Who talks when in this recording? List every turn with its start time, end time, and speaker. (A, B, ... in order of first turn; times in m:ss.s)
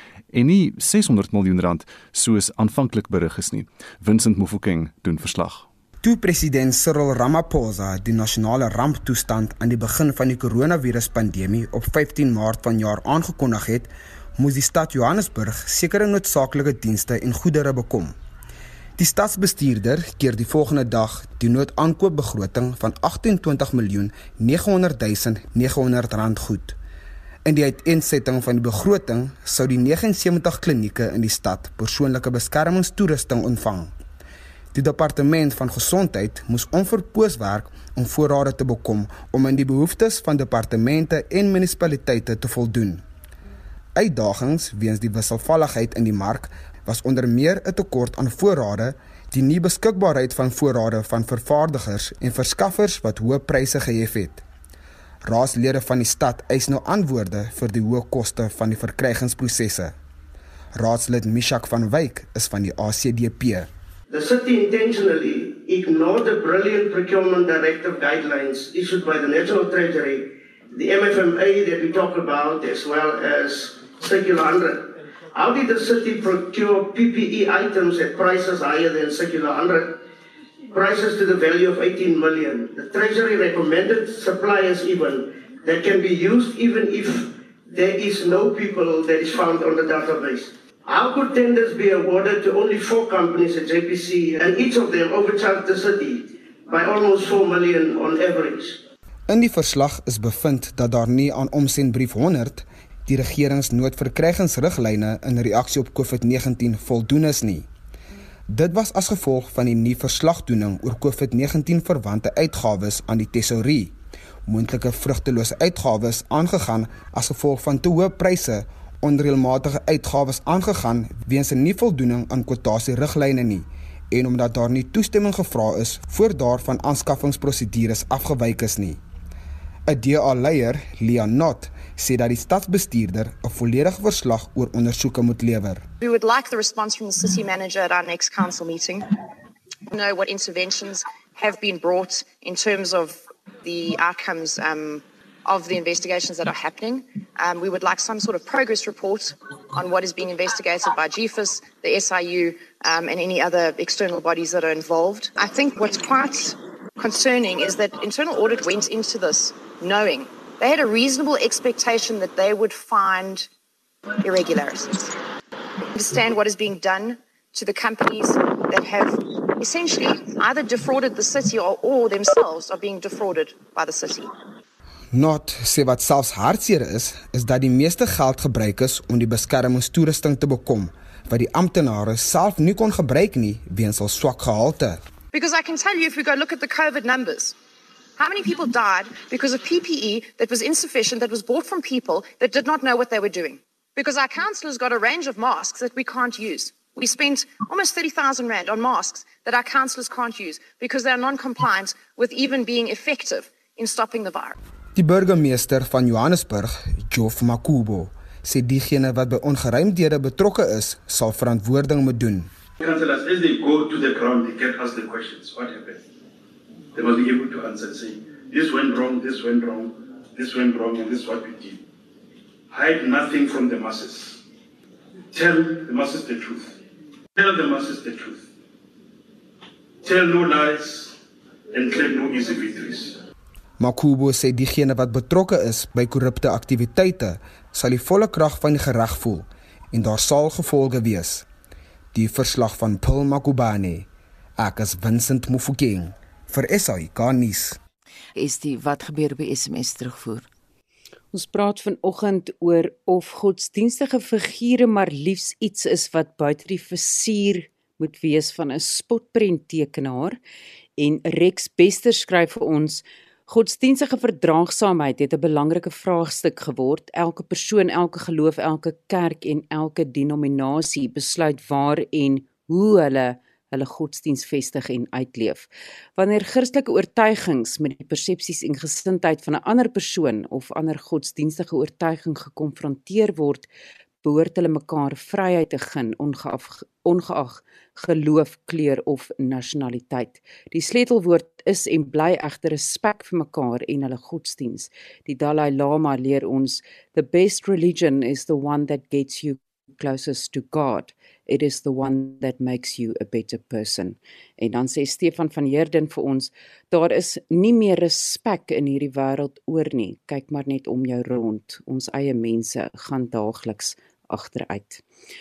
0:00.3-0:05.6 A
0:06.0-0:18.1 B
0:19.0-0:26.8 B
0:27.4-0:33.9 B
0:34.7-0:43.0 B
0:44.0-0:54.4 B
0:55.2-0:59.9 B
1:00.7-1:03.7 B
1:04.1-1:20.0 C
1:20.7-1:38.8 C
1:39.3-1:47.7 B
1:48.5-1:53.9 B
1:54.4-2:09.0 B
2:09.9-2:15.8 B
2:16.0-2:19.1 D
2:19.9-2:43.5 D
2:44.2-2:45.1 D
2:45.9-2:54.3 D
2:55.1-3:05.0 B
3:05.3-3:07.6 D
3:08.2-3:24.6 D
3:24.9-3:32.5 B
3:32.8-3:36.0 E
3:36.9-3:41.8 E
3:42.7-3:44.4 E
3:45.3-3:46.8 E
3:47.4-3:48.5 E
3:50.0-3:51.2 E
3:51.7-3:53.2 E
3:53.8-4:01.4 B
4:02.1-4:07.8 B
4:08.4-4:10.4 F
4:11.3-4:20.4 G
4:21.0-4:43.7 G
4:44.2-5:15.0 G